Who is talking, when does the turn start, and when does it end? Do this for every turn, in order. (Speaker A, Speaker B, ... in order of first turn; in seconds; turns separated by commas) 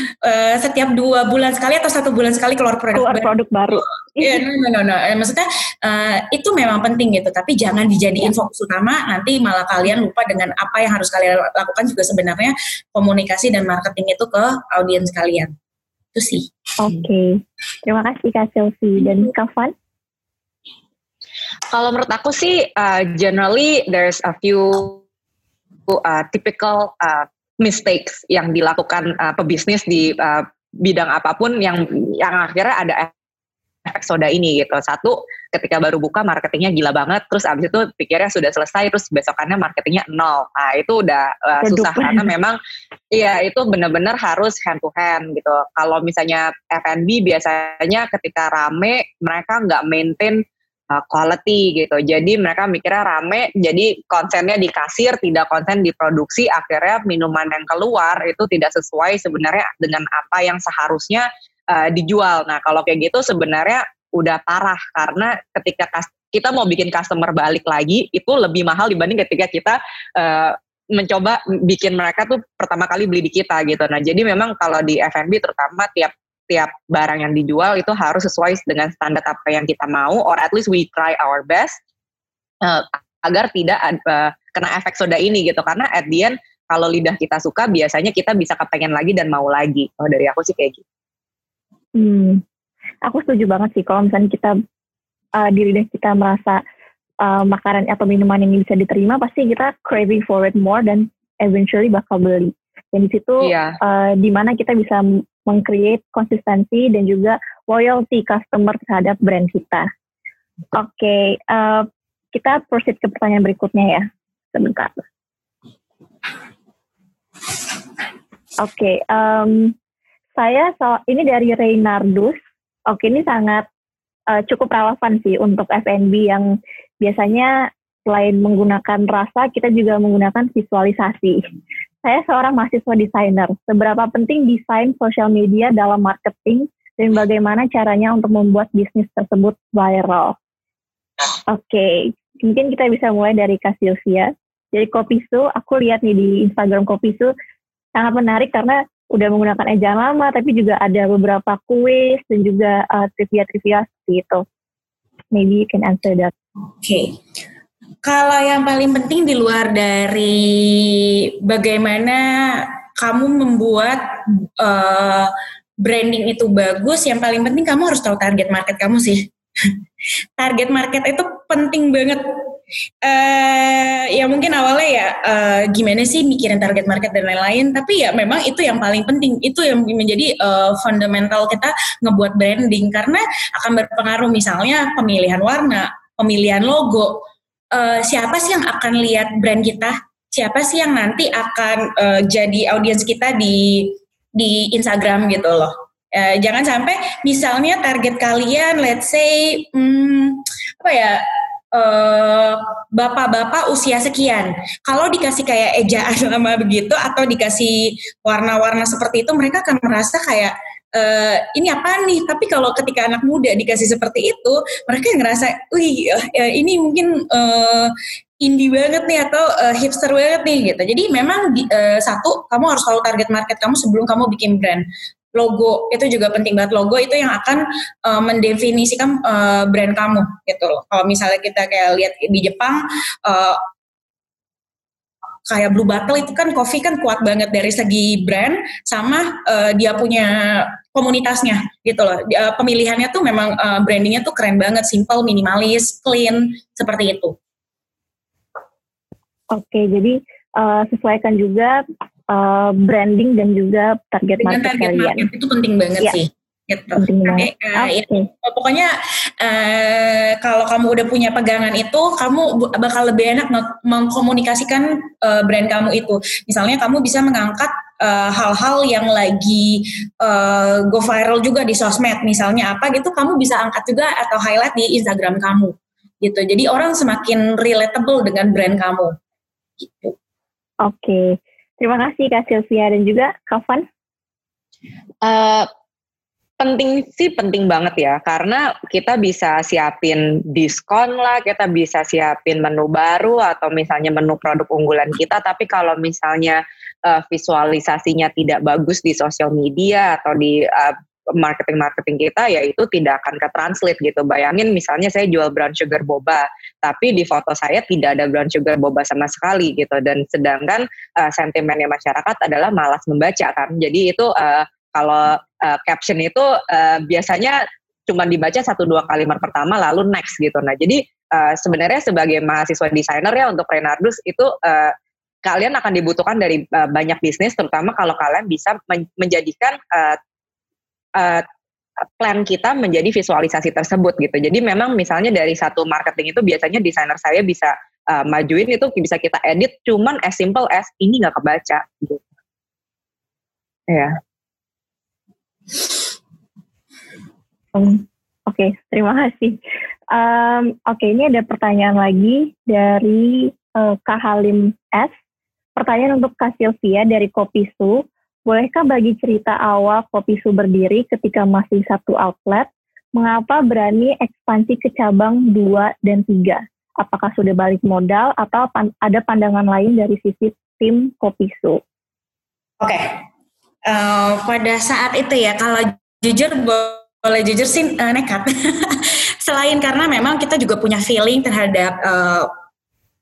Speaker A: 0.2-15.5, Speaker B: 2.9-4.4, Speaker A: 16.1-16.5, Speaker B: 16.8-19.7, Speaker C: 21.7-25.0, Speaker C: 25.9-33.1, Speaker C: 33.9-42.6, Speaker B: 41.6-42.2, Speaker C: 43.1-81.8, Speaker C: 82.6-90.8, Speaker B: 92.0-92.4, Speaker B: 93.1-94.5, Speaker B: 95.4-96.6, Speaker B: 97.2-109.9, Speaker C: 103.4-103.8, Speaker B: 110.7-115.0, Speaker B: 118.6-119.7, Speaker B: 120.4-122.4, Speaker B: 122.9-123.7, Speaker B: 124.3-127.5, Speaker B: 128.1-131.4, Speaker B: 132.0-140.3, Speaker B: 141.5-147.3, Speaker B: 148.0-154.4, Speaker B: 155.3-156.3, Speaker A: 156.8-157.1, Speaker A: 158.0-165.3, Speaker A: 165.8-169.7, Speaker A: 170.4-172.2, Speaker A: 173.0-187.2, Speaker A: 187.7-224.8, Speaker A: 225.3-233.6, Speaker A: 235.5-247.3, Speaker B: 249.5-255.2, Speaker A: 254.4-279.1, Speaker B: 256.9-258.3, Speaker A: 279.8-280.1, Speaker B: 280.8-283.9, Speaker C: 285.2-285.7, Speaker C: 286.6-324.9, Speaker C: 325.4-330.2, Speaker C: 331.2-331.4, Speaker C: 332.2-342.2, Speaker C: 343.9-344.1, Speaker B: 347.7-349.6, Speaker B: 350.1-355.1, Speaker B: 355.8-371.8, Speaker A: 372.8-373.1, Speaker A: 373.9-382.5